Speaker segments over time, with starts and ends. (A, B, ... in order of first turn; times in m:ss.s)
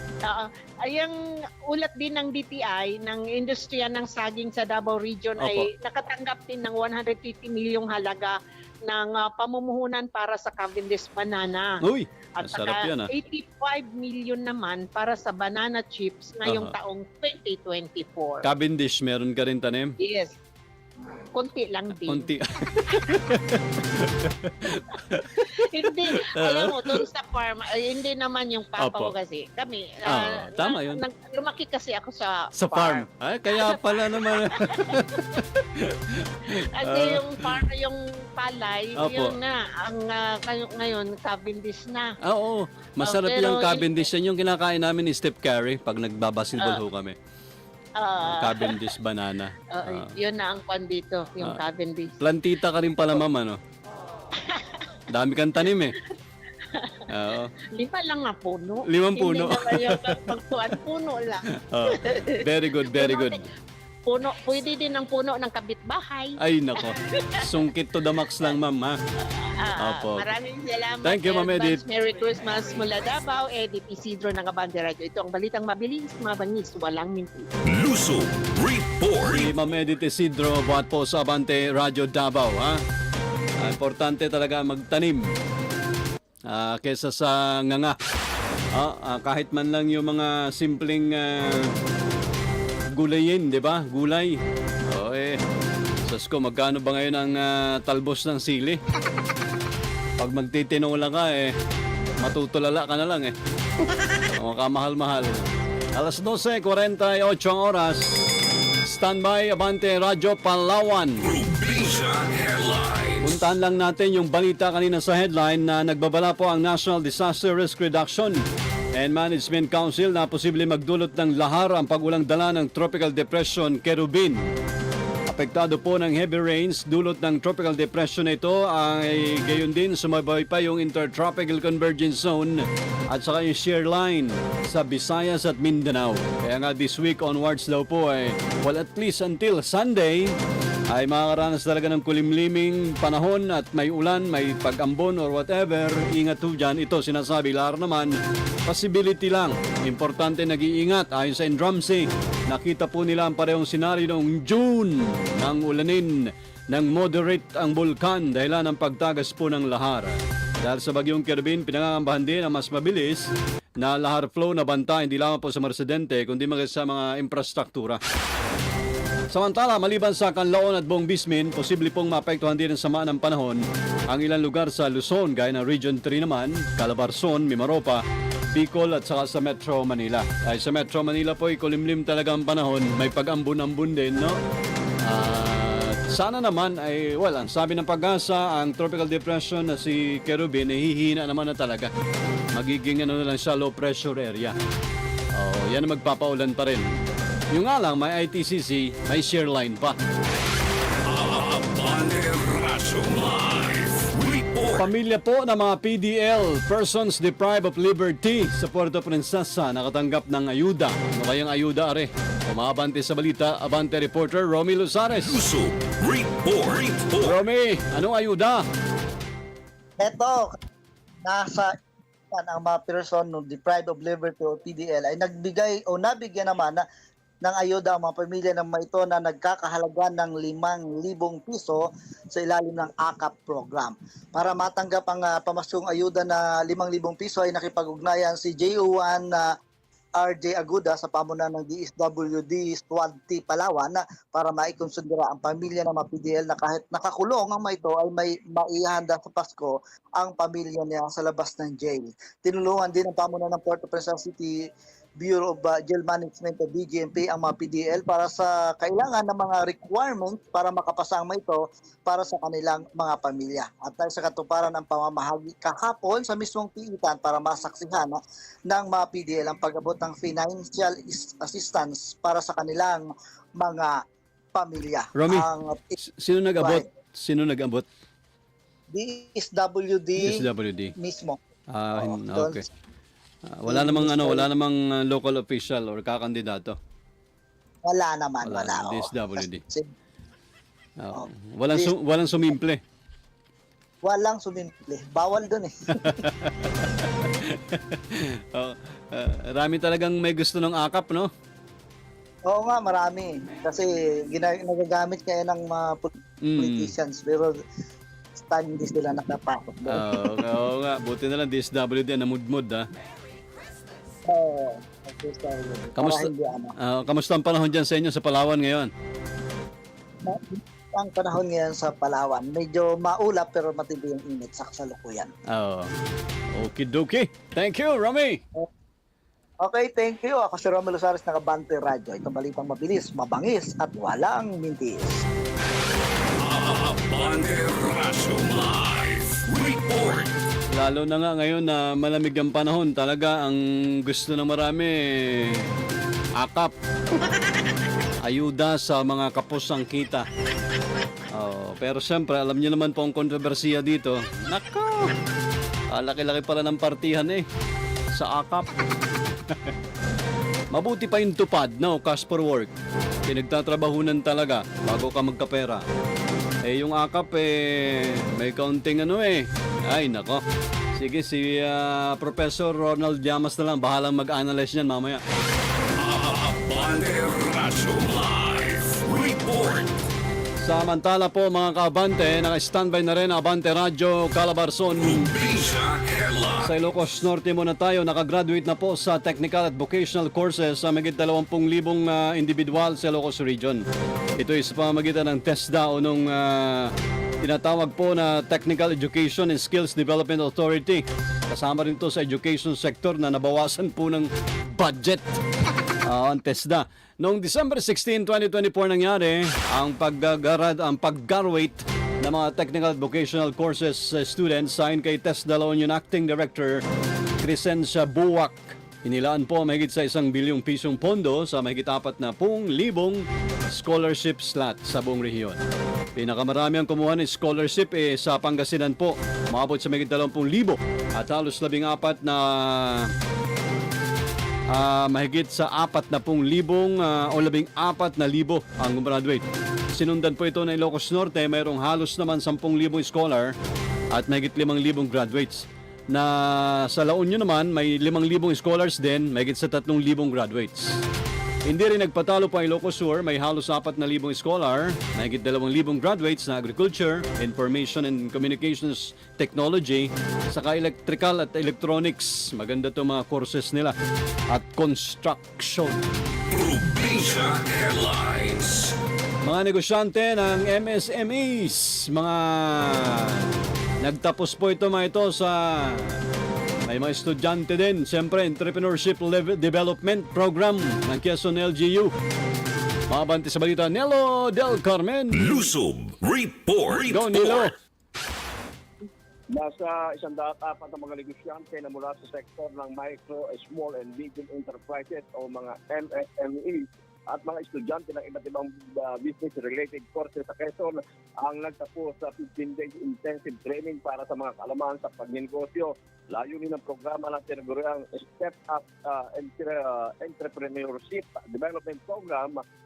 0:00.2-0:01.1 A
0:01.7-0:11.8 A
0:05.4-0:05.7 B
0:11.8-0:13.1 B
0:12.4-0:18.4 A
0:16.4-0:16.7 B
0:18.4-0:20.0 B
0:20.0-0:20.3 A
0:21.3-0:22.3 A
0:22.0-0:27.0 B
0:22.9-0:23.2 A
0:25.5-0:35.2 A
0:28.8-0:29.1 B
0:30.0-0:31.0 B
0:32.5-0:37.6 B
0:36.7-0:42.1 A
0:39.0-0:39.4 B
0:42.2-0:47.1 B
0:43.0-0:44.0 A
0:48.0-0:48.9 A
0:48.2-0:50.1 B
0:49.7-0:52.2 A
0:52.2-0:53.6 B
0:54.4-0:54.9 A
0:55.1-0:56.0 B
0:56.6-0:57.0 A
0:57.1-0:57.5 B
0:57.7-1:03.4 A
0:58.8-1:00.3 B
1:01.5-1:03.4 B
1:04.0-1:06.4 A
1:06.4-1:09.0 B
1:06.9-1:07.6 A
1:09.4-1:17.5 A
1:09.8-1:10.2 B
1:11.0-1:11.8 B
1:17.6-1:19.6 C
1:19.2-1:22.8 B
1:23.6-1:25.3 B
1:26.5-1:27.9 B
1:28.7-1:31.7 B
1:32.9-1:34.4 B
1:34.9-1:35.4 B
1:36.0-1:38.8 B
1:40.2-1:41.5 B
1:42.2-1:43.3 B
1:44.3-1:45.4 B
1:45.9-1:48.2 B
1:48.8-1:51.3 B
1:51.2-1:53.4 C
1:53.2-1:58.4 B
1:58.9-2:04.5 B
2:05.3-2:20.3 B
2:20.9-2:43.3 B
2:43.8-2:48.0 B
2:49.3-3:04.4 B
3:05.0-3:11.9 B
3:12.5-3:14.5 B
3:15.4-3:16.9 B
3:17.5-3:20.0 B
3:21.0-3:24.9 C
3:24.8-3:35.4 B
3:35.2-3:37.4 C
3:37.2-3:38.6 B
3:40.0-3:40.6 D
3:41.2-3:41.7 D
3:42.3-3:46.8 D
3:47.4-3:59.5 D
4:00.2-4:14.5 D
4:15.2-4:28.2 D
4:28.7-4:33.0 D
4:33.6-4:34.0 D
4:34.5-4:35.9 D
4:35.2-4:35.5 B
4:36.0-4:37.8 B
4:36.6-4:36.8 D
4:38.9-4:41.4 D
4:40.2-4:40.9 B
4:41.7-4:42.6 B
4:41.9-4:42.6 D
4:43.5-4:46.8 B
4:43.7-4:44.5 D
4:47.8-4:49.9 D
4:48.4-4:49.6 B
4:51.0-4:52.8 B
4:51.1-4:51.9 D
4:54.0-4:56.2 D
4:55.9-5:01.3 B
5:02.5-5:07.5 D
5:06.4-5:06.9 B
5:08.4-5:10.5 D
5:09.9-5:12.9 B
5:14.3-5:16.7 D
5:16.0-5:18.9 B
5:20.2-5:25.3 D
5:25.5-5:25.9 B
5:26.5-5:28.4 B
5:29.6-5:35.3 D
5:36.4-5:40.3 C
5:40.7-5:45.6 B
5:46.4-5:46.7 B
5:48.2-5:50.2 B
5:51.3-5:55.1 B
5:55.9-5:57.4 B
5:58.1-5:58.7 B
5:59.5-5:59.7 B
6:00.7-6:02.7 B
6:03.3-6:05.8 B
6:06.6-6:10.4 B
6:11.0-6:15.2 B
6:16.0-6:20.1 C
6:20.6-6:25.3 B
6:25.0-6:26.9 C
6:26.6-6:33.8 B
6:34.4-6:45.4 B
6:46.0-6:56.8 B
6:57.4-7:05.6 B
7:06.2-7:13.1 B
7:14.7-7:23.5 B
7:24.1-7:31.0 B
7:31.6-7:43.9 B
7:44.5-7:46.2 B
7:46.5-7:48.9 C
7:49.4-7:53.5 B
7:54.0-7:56.2 B
7:56.9-8:02.1 B
8:03.1-8:05.7 B
8:05.3-8:07.7 C
8:07.1-8:07.7 B
8:09.5-8:32.6 E